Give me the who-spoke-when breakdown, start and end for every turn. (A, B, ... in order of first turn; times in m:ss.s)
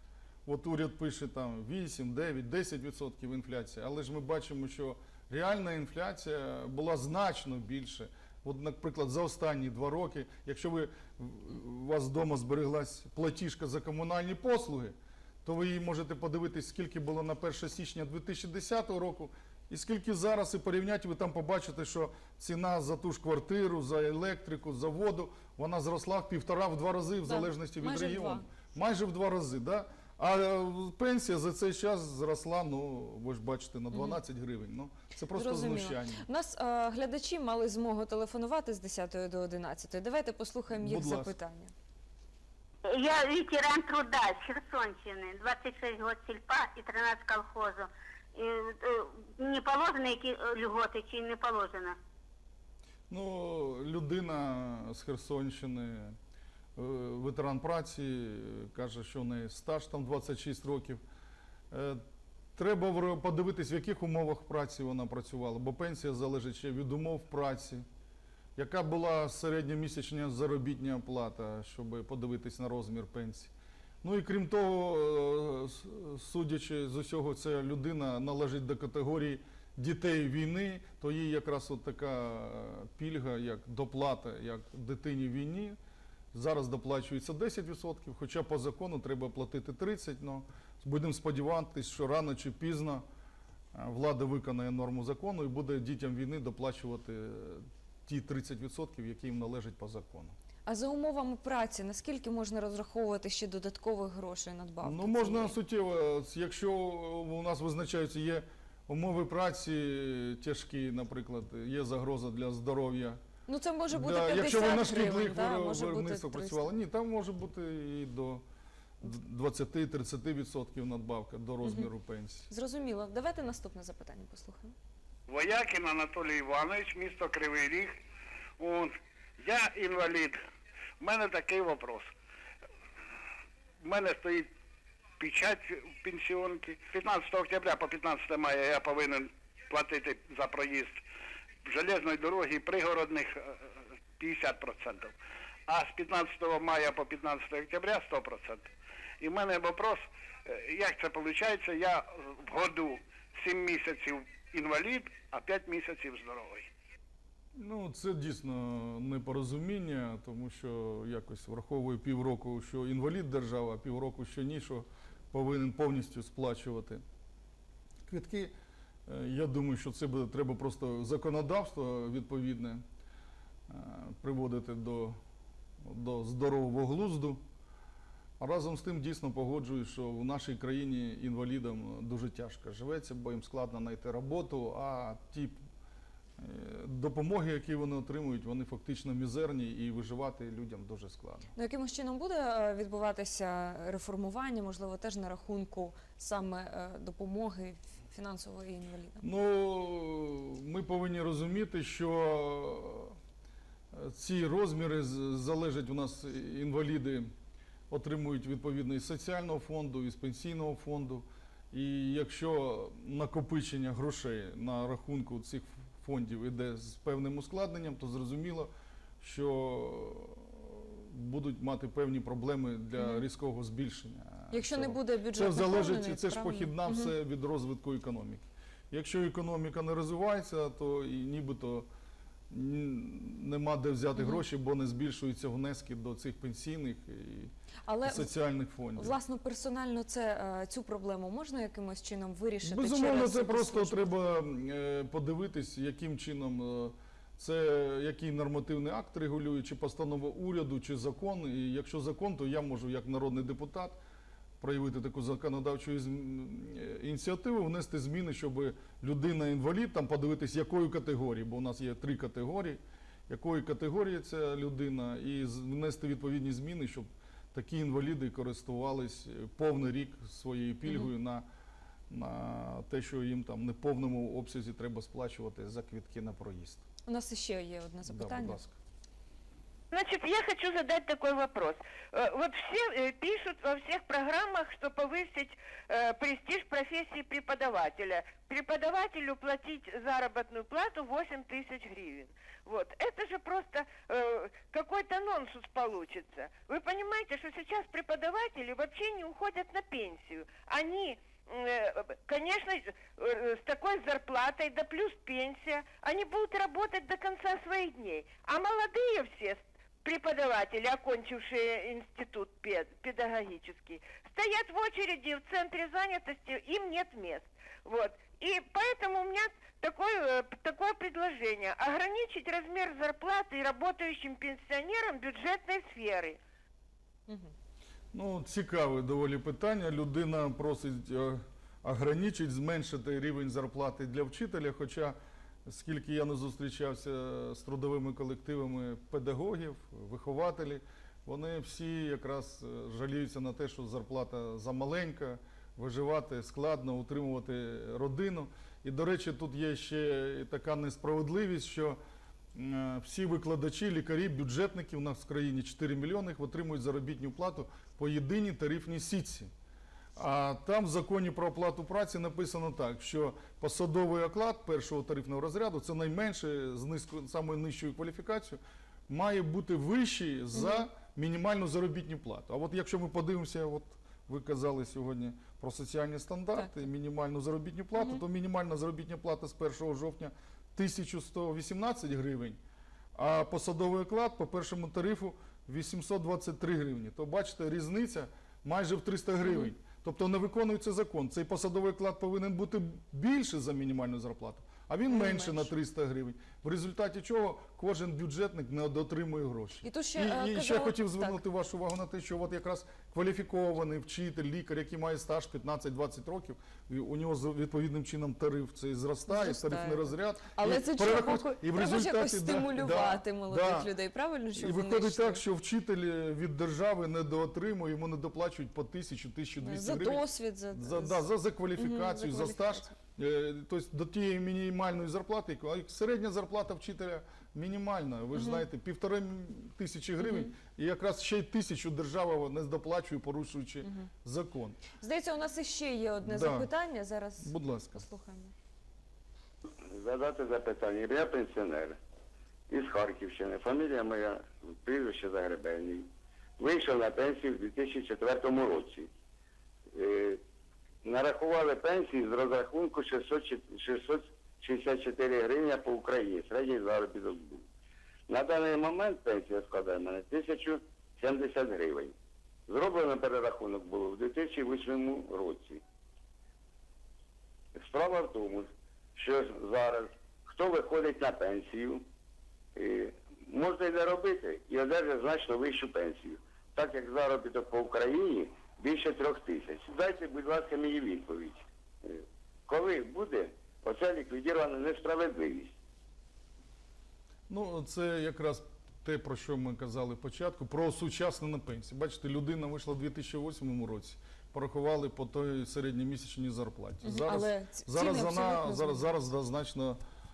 0:00.4-0:36.3 A
0:27.2-0:28.4 B
0:33.9-0:34.2 B
0:35.3-0:41.7 B
0:40.7-0:41.4 A
0:42.8-0:52.0 C
0:53.1-0:56.2 A
0:56.8-1:01.0 A
1:01.7-1:02.0 A
1:02.6-1:07.8 A
1:08.6-1:13.5 A
1:14.0-1:25.8 A
1:26.3-1:33.0 A
1:33.7-1:40.3 A
1:40.6-1:45.5 B
1:44.8-1:53.2 A
1:53.5-1:56.6 B
1:53.9-1:58.4 A
1:59.0-2:02.5 A
2:01.6-2:01.9 B
2:02.5-2:04.7 B
2:05.3-2:08.0 D
2:08.6-2:10.4 D
2:11.0-2:12.1 D
2:13.8-2:14.5 D
2:15.2-2:21.0 D
2:21.6-2:23.6 D
2:24.2-2:25.1 D
2:25.7-2:28.7 D
2:29.2-2:36.7 D
2:37.5-2:47.0 A
2:48.1-2:48.5 A
2:49.1-2:52.8 A
2:53.7-2:55.2 A
2:55.8-2:57.4 A
2:58.4-3:05.6 A
3:06.4-3:11.5 A
3:11.5-3:19.2 B
3:19.2-3:23.2 A
3:23.9-3:27.3 A
3:27.9-3:38.7 A
3:39.2-3:51.9 A
3:43.0-3:43.2 B
3:44.5-3:47.1 B
3:52.5-3:57.5 A
3:54.2-3:54.4 B
3:57.9-3:58.3 B
3:58.0-3:59.1 A
3:58.9-4:04.1 B
4:02.6-4:14.0 A
4:14.6-4:31.4 A
4:32.1-4:36.8 A
4:37.1-4:38.6 B
4:38.0-4:38.7 A
4:39.9-5:26.4 E
5:28.1-5:52.0 A
5:52.5-5:59.5 A
6:00.2-6:22.6 A
6:10.5-6:10.8 B
6:18.0-6:18.2 B
6:23.1-6:53.9 A
6:29.4-6:29.7 B
6:35.1-6:35.7 B
6:39.8-6:41.4 B
6:49.3-6:55.4 B
6:54.5-7:14.8 A
6:59.6-7:02.9 B
7:08.3-7:08.6 B
7:10.2-7:10.5 B
7:15.0-7:18.5 B
7:16.2-7:16.7 A
7:17.4-7:18.0 A
7:19.9-7:22.0 F
7:22.7-7:26.1 F
7:26.6-7:29.1 F
7:30.0-7:30.4 F
7:31.0-7:37.6 F
7:38.3-7:42.1 F
7:42.7-7:45.8 F
7:47.7-7:52.0 F
7:52.8-8:05.8 F
8:07.5-8:20.0 A
8:17.0-8:19.1 B